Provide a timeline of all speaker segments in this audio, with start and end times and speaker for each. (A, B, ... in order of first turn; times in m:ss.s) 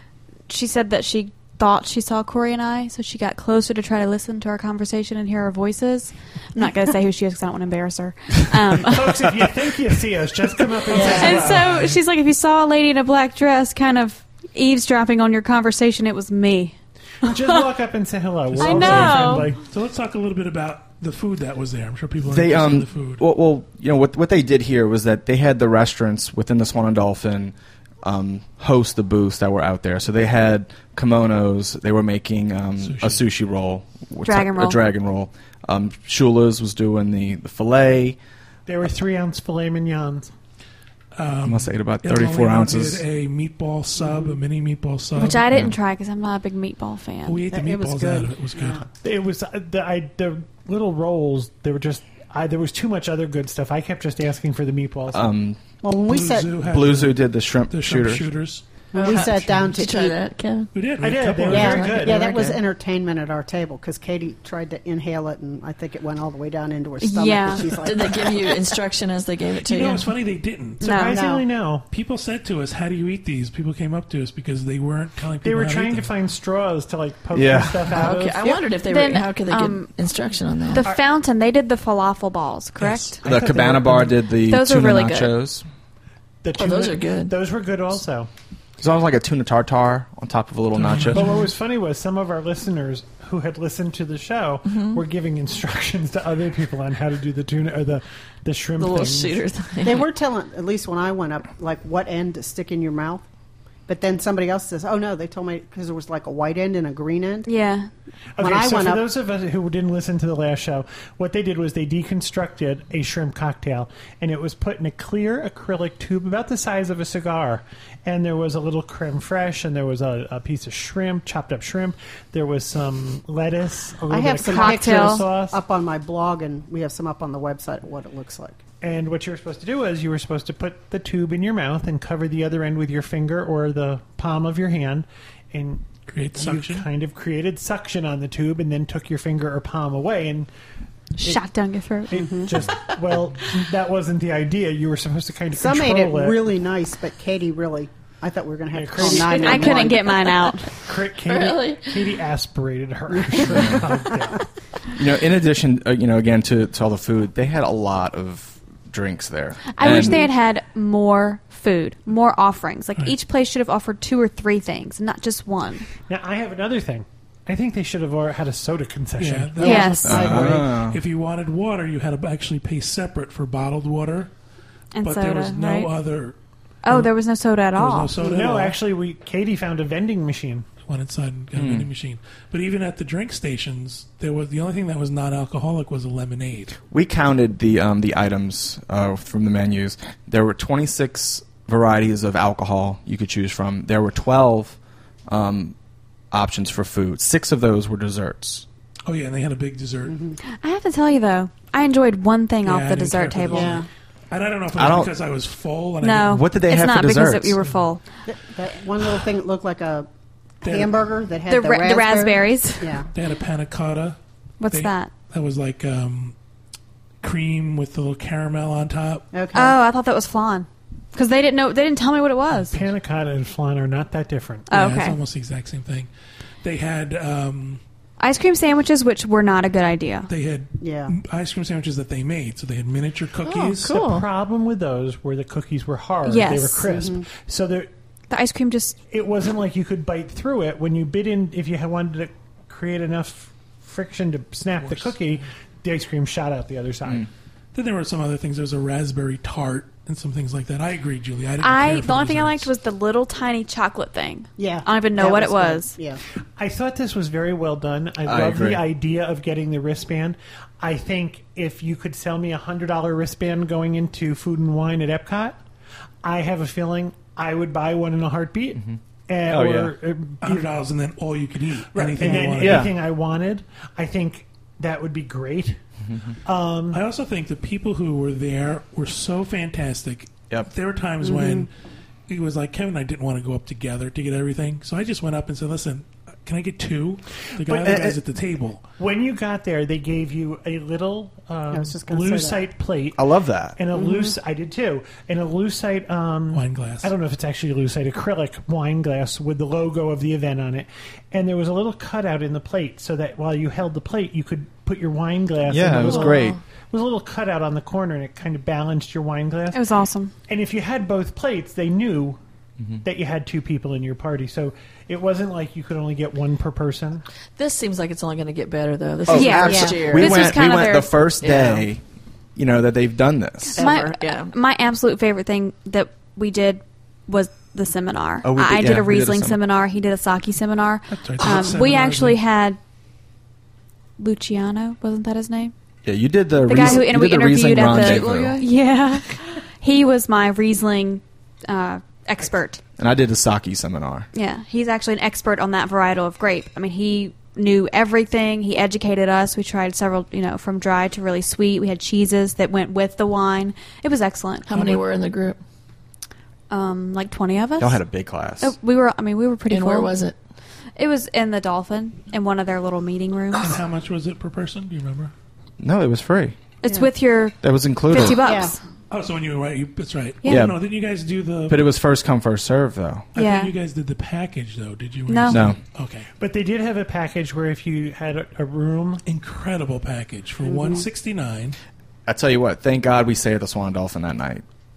0:00.5-0:09.4 A
0:08.7-0:12.0 B
0:10.9-0:11.5 C
0:10.9-0:17.6 A
0:17.2-0:19.6 B
0:18.5-0:23.2 D
0:18.6-0:19.5 A
0:22.2-0:38.2 E
0:32.8-0:33.2 D
0:34.2-0:34.8 A
0:38.7-0:40.3 B
0:41.2-0:45.7 D
0:41.4-0:43.0 E
0:45.2-0:47.4 A
0:47.2-0:48.8 D
0:47.5-0:48.8 C
0:49.0-0:55.3 B
0:55.1-0:55.6 E
0:55.8-0:56.6 C
0:56.0-0:58.6 D
0:56.6-0:58.3 E
0:58.9-1:00.2 C
0:58.9-1:00.7 F
1:00.7-1:02.1 D
1:01.0-1:02.5 B
1:01.5-1:08.8 C
1:01.5-1:02.6 F
1:07.0-1:07.8 A
1:07.7-1:10.1 F
1:09.6-1:11.0 D
1:10.8-1:11.2 A
1:10.8-1:11.8 B
1:11.1-1:11.4 C
1:11.9-1:16.1 D
1:15.4-1:18.4 B
1:17.3-1:18.0 E
1:17.9-1:20.9 F
1:18.8-1:19.9 A
1:20.7-1:23.2 A
1:22.8-1:23.1 D
1:23.2-1:24.2 B
1:23.2-1:25.6 E
1:24.3-1:25.3 A
1:26.4-1:28.3 B
1:26.5-1:27.3 F
1:28.8-1:31.4 E
1:30.7-1:31.4 D
1:31.1-1:39.4 B
1:34.6-1:35.0 F
1:38.8-1:40.1 F
1:39.8-1:43.2 C
1:43.9-1:47.5 C
1:47.4-1:47.9 A
1:48.4-2:05.6 B
1:48.4-1:49.0 C
2:04.1-2:08.6 C
2:04.5-2:05.2 A
2:08.8-2:20.5 B
2:16.0-2:16.9 D
2:21.2-2:22.4 A
2:22.1-2:26.4 B
2:22.2-2:22.5 C
2:25.5-2:30.3 C
2:28.7-2:30.0 B
2:29.0-2:30.7 A
2:30.8-2:34.5 B
2:31.2-2:32.2 F
2:33.2-2:33.8 C
2:33.6-2:33.8 E
2:34.9-2:40.2 E
2:39.7-2:45.9 A
2:39.8-2:40.3 C
2:46.0-2:50.6 B
2:49.2-2:54.3 D
2:49.6-2:50.3 A
2:49.6-2:50.3 C
2:50.0-2:51.0 E
2:54.9-2:55.9 A
2:55.0-2:56.4 D
2:56.8-2:58.2 A
2:57.7-2:58.8 D
2:58.2-3:00.7 B
3:00.8-3:06.8 D
3:01.5-3:01.9 E
3:06.9-3:14.8 E
3:15.3-3:15.7 E
3:16.3-3:18.6 E
3:19.1-3:20.2 D
3:20.0-3:20.4 C
3:20.5-3:23.8 A
3:22.6-3:26.4 D
3:23.5-3:23.9 C
3:24.8-3:25.1 E
3:26.0-3:28.0 A
3:26.2-3:27.6 E
3:28.2-3:30.1 C
3:30.6-3:31.0 D
3:30.6-3:33.1 C
3:31.5-3:33.0 A
3:33.1-3:34.2 D
3:34.6-3:35.1 A
3:34.7-3:36.4 D
3:37.2-3:39.2 D
3:39.3-3:39.8 C
3:39.5-3:42.7 A
3:42.7-3:44.7 B
3:44.7-3:45.2 A
3:44.7-3:46.1 D
3:46.6-3:47.8 D
3:48.2-3:50.3 A
3:50.3-3:54.0 D
3:50.8-3:51.1 C
3:53.4-3:54.3 F
3:53.9-3:57.9 B
3:56.2-3:56.9 A
3:56.9-3:57.2 C
3:58.3-3:59.0 A
3:59.1-4:07.3 B
4:04.8-4:05.2 D
4:07.7-4:12.7 D
4:11.6-4:16.0 A
4:14.6-4:16.2 C
4:16.6-4:25.6 B
4:18.2-4:18.8 E
4:26.2-4:30.7 B
4:29.5-4:29.9 E
4:30.4-4:32.9 D
4:31.9-4:35.8 B
4:32.2-4:32.5 C
4:32.6-4:32.9 E
4:36.1-4:36.3 E
4:36.4-4:37.0 B
4:36.9-4:41.7 D
4:41.2-4:41.7 C
4:42.3-4:48.8 D
4:47.6-4:48.1 B
4:47.8-4:48.1 E
4:49.0-4:53.2 B
4:51.7-4:52.6 C
4:53.1-4:53.8 E
4:53.8-5:09.8 B
4:53.9-4:54.3 C
4:56.5-4:57.1 D
5:05.7-5:06.6 E
5:06.0-5:06.6 F
5:09.7-5:10.3 A
5:10.5-5:12.4 B
5:13.0-5:17.2 B
5:17.6-5:20.6 F
5:19.3-5:22.0 E
5:19.3-5:21.2 A
5:19.6-5:20.2 C
5:21.4-5:21.8 F
5:22.6-5:23.8 E
5:23.7-5:32.8 A
5:23.8-5:24.1 C
5:23.8-5:24.5 F
5:28.4-5:29.6 E
5:31.1-5:32.4 D
5:34.2-5:35.7 A
5:36.0-5:38.6 E
5:36.6-5:42.8 A
5:43.0-5:44.3 E
5:44.3-5:55.0 A
5:54.7-5:55.6 F
5:56.7-5:58.0 A
5:57.8-5:58.7 E
5:58.6-6:00.1 A
5:59.7-6:00.4 F
6:01.0-6:03.8 A
6:03.6-6:05.3 D
6:05.8-6:06.6 E
6:06.8-6:08.8 A
6:07.6-6:08.6 E
6:08.4-6:08.7 C
6:09.1-6:11.9 D
6:10.4-6:10.7 A
6:10.4-6:10.8 E
6:11.7-6:13.3 E
6:13.3-6:13.7 A
6:13.3-6:16.3 D
6:15.3-6:15.7 A
6:15.5-6:15.8 E
6:16.4-6:19.2 B
6:19.2-6:21.8 D
6:20.6-6:21.0 C
6:22.3-6:24.6 E